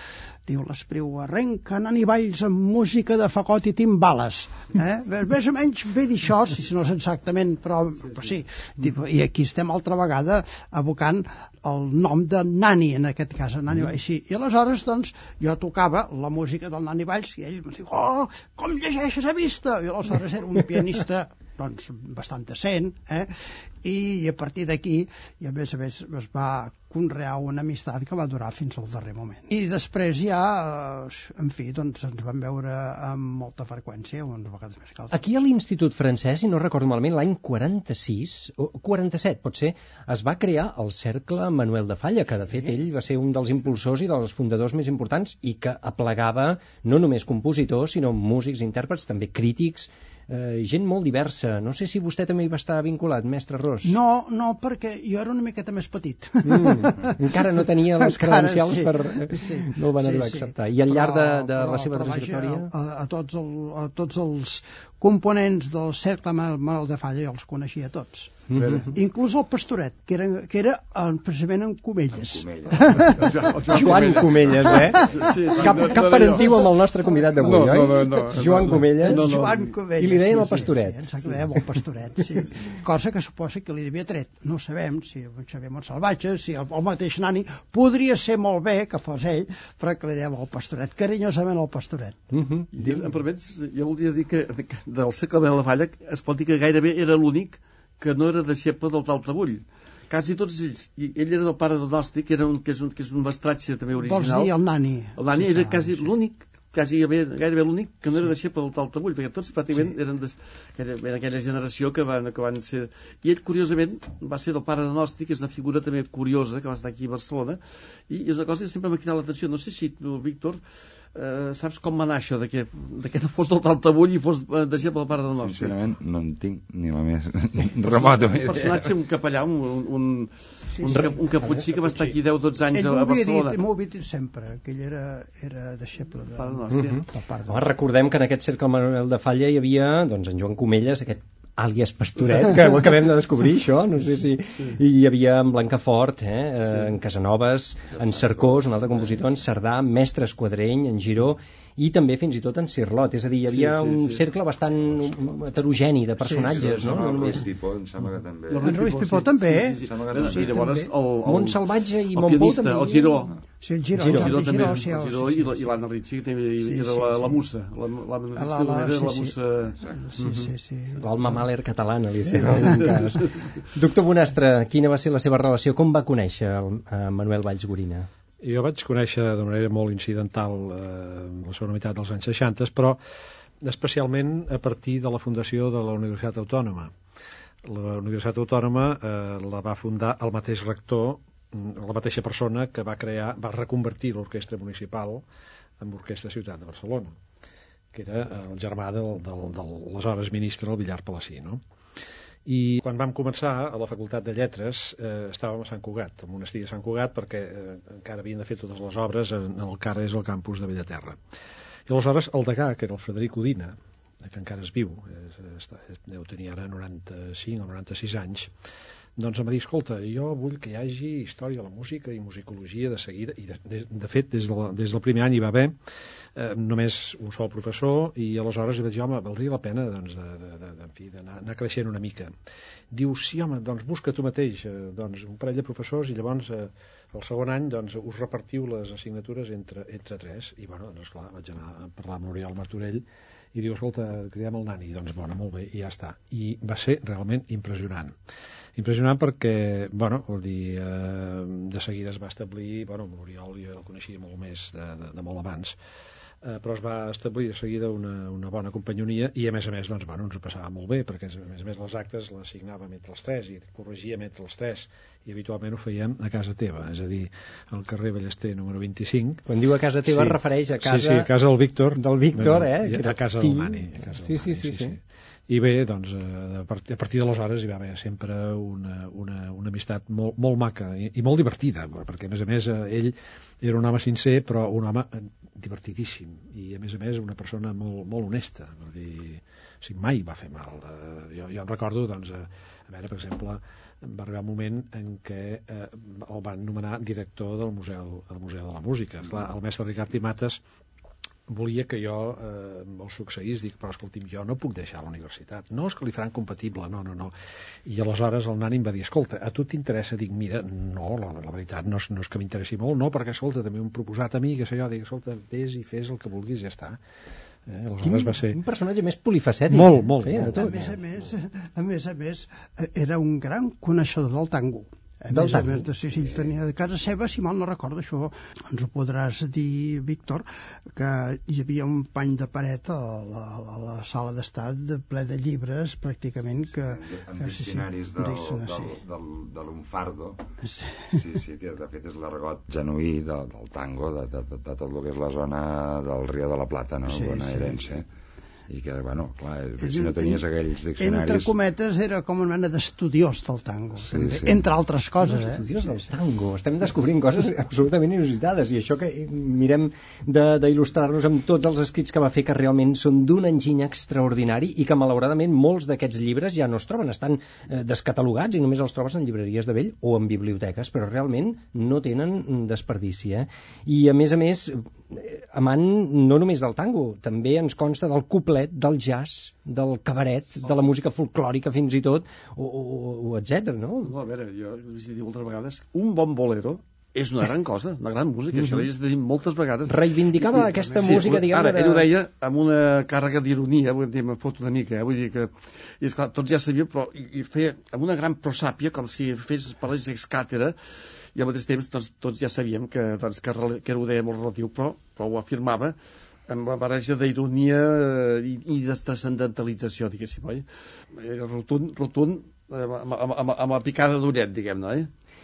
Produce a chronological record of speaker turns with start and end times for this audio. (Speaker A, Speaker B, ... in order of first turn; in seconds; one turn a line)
Speaker A: 0.4-35.1
Speaker B: 35.1-54.0
Speaker A: 53.8-76.0
Speaker B: 56.4-62.7
Speaker B: 68.5-68.9
Speaker C: 72.2-73.5
Speaker D: 73.1-79.7
Speaker B: 73.7-79.4
Speaker C: 74.3-75.1
Speaker A: 78.5-92.2
Speaker B: 80.0-81.6
Speaker B: 92.3-92.7
Speaker D: 92.7-104.5
Speaker A: 104.0-106.0
Speaker D: 105.2-120.6
Speaker D: 121.1-125.8
Speaker C: 125.4-128.9
Speaker D: 127.8-133.6
Speaker A: 130.7-131.2
Speaker A: 132.7-137.7
Speaker D: 136.4-137.0
Speaker B: 136.7-157.4
Speaker C: 147.9-148.7
Speaker D: 153.4-154.2
Speaker A: 156.3-156.7
Speaker C: 156.3-160.7
Speaker D: 158.5-163.3
Speaker A: 158.6-160.8
Speaker B: 160.8-163.3
Speaker A: 163.6-165.7
Speaker B: 164.0-164.4
Speaker D: 164.0-169.9
Speaker A: 166.6-167.4
Speaker A: 168.3-171.3
Speaker B: 171.0-178.1
Speaker E: 178.4-183.0
Speaker E: 183.6-186.9
Speaker E: 187.6-195.2
Speaker E: 195.8-197.1
Speaker E: 197.9-201.6
Speaker E: 202.4-211.2
Speaker E: 211.9-218.5
Speaker E: 219.2-225.7
Speaker E: 226.3-232.3
Speaker E: 232.9-248.1
Speaker E: 248.8-255.8
Speaker E: 256.4-269.4
Speaker B: 269.5-271.3
Speaker E: 270.1-300.6
Speaker B: 271.9-275.0
Speaker E: 301.5-307.3
Speaker E: 307.9-317.0
Speaker E: 317.7-318.6
Speaker B: 318.0-320.9
Speaker E: 319.7-320.8
Speaker A: 320.5-339.0
Speaker B: 325.3-325.9
Speaker C: 336.8-340.4
Speaker A: 340.6-341.2
Speaker C: 341.1-348.1
Speaker A: 347.1-347.9
Speaker C: 348.7-351.5
Speaker A: 349.8-350.4
Speaker A: 351.0-355.6
Speaker C: 354.0-354.7
Speaker B: 355.2-384.1
Speaker D: 384.0-400.8
Speaker B: 389.9-392.1
Speaker A: 390.7-391.2
Speaker D: 401.3-405.9
Speaker D: 406.5-415.1